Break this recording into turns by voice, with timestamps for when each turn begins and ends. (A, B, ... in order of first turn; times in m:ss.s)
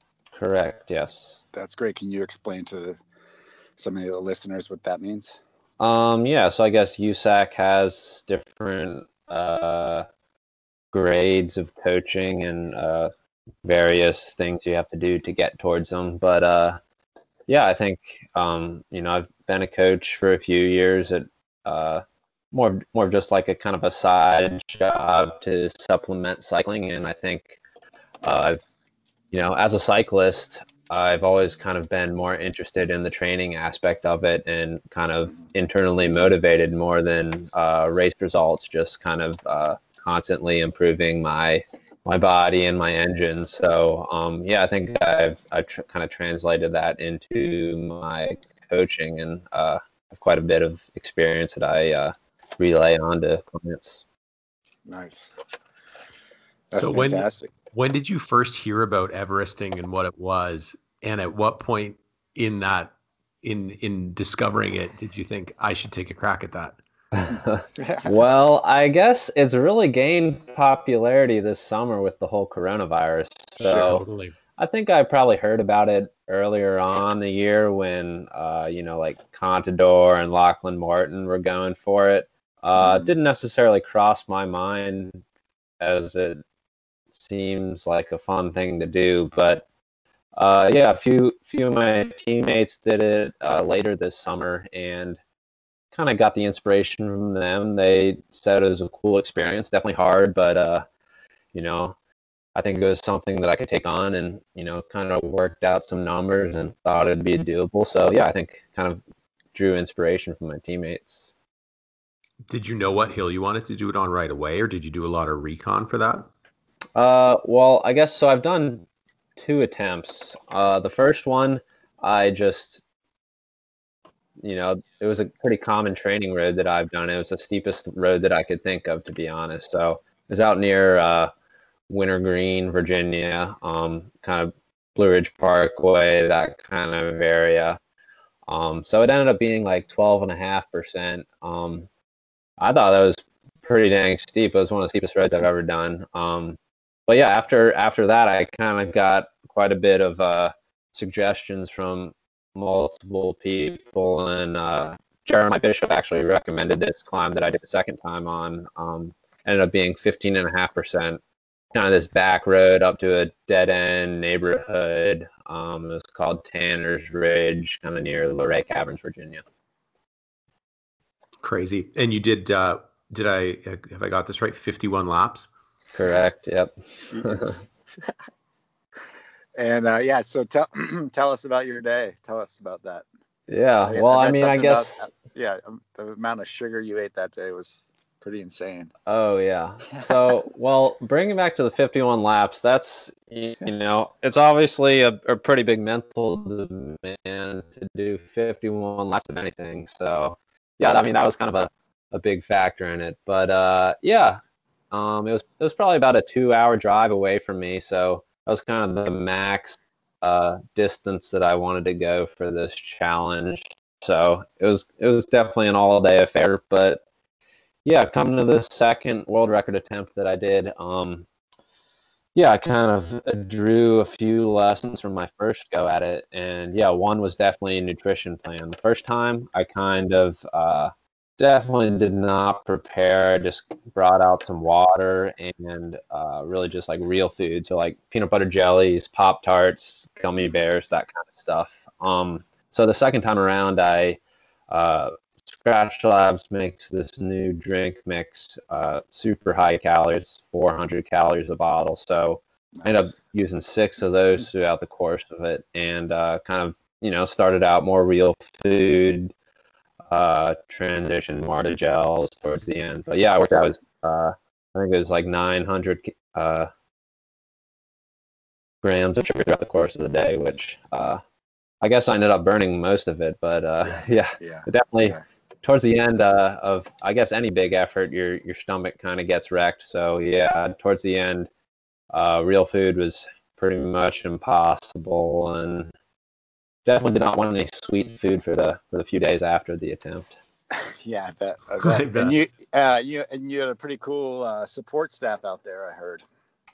0:00.4-0:01.4 A
0:01.5-0:03.0 B
0:03.8-0:05.4 B
0:05.8-0:10.1 A
0:10.9-0:13.1 A
0:13.6-0:16.8 A
0:17.5-0:27.6 A
0:28.2-0:28.6 A
0:29.3-0:54.0 A
0:54.8-0:55.3 B
0:56.7-0:57.5 B
0:56.7-1:06.8 C
1:07.1-1:14.0 A
1:07.7-1:08.2 B
1:13.6-1:14.4 C
1:14.6-1:25.2 A
1:22.8-1:23.1 B
1:25.8-1:26.4 A
1:27.1-1:29.6 A
1:30.4-1:35.2 A
1:35.9-1:40.8 A
1:41.5-1:42.0 A
1:42.5-1:49.0 A
1:49.5-1:51.3 A
1:52.5-1:56.3 C
1:57.0-1:58.8 A
1:59.4-2:02.8 A
2:04.4-2:11.3 A
2:11.9-2:17.8 A
2:18.5-2:21.9 A
2:22.6-2:41.2 A
2:41.7-2:49.4 A
2:51.4-2:55.5 C
2:55.9-2:57.6 A
2:56.9-2:58.1 B
2:59.5-3:03.0 B
3:03.5-3:05.1 A
3:03.8-3:08.9 B
3:09.0-3:37.0 A
3:37.8-3:41.2 A
3:42.3-4:19.3 A
4:12.8-4:13.1 B
4:20.1-4:26.7 A
4:28.8-4:31.2 A
4:31.8-4:41.5 A
4:33.8-4:35.2 B
4:42.1-4:45.9 A
4:46.8-4:50.3 A
4:50.7-4:56.2 B
4:51.8-4:52.4 C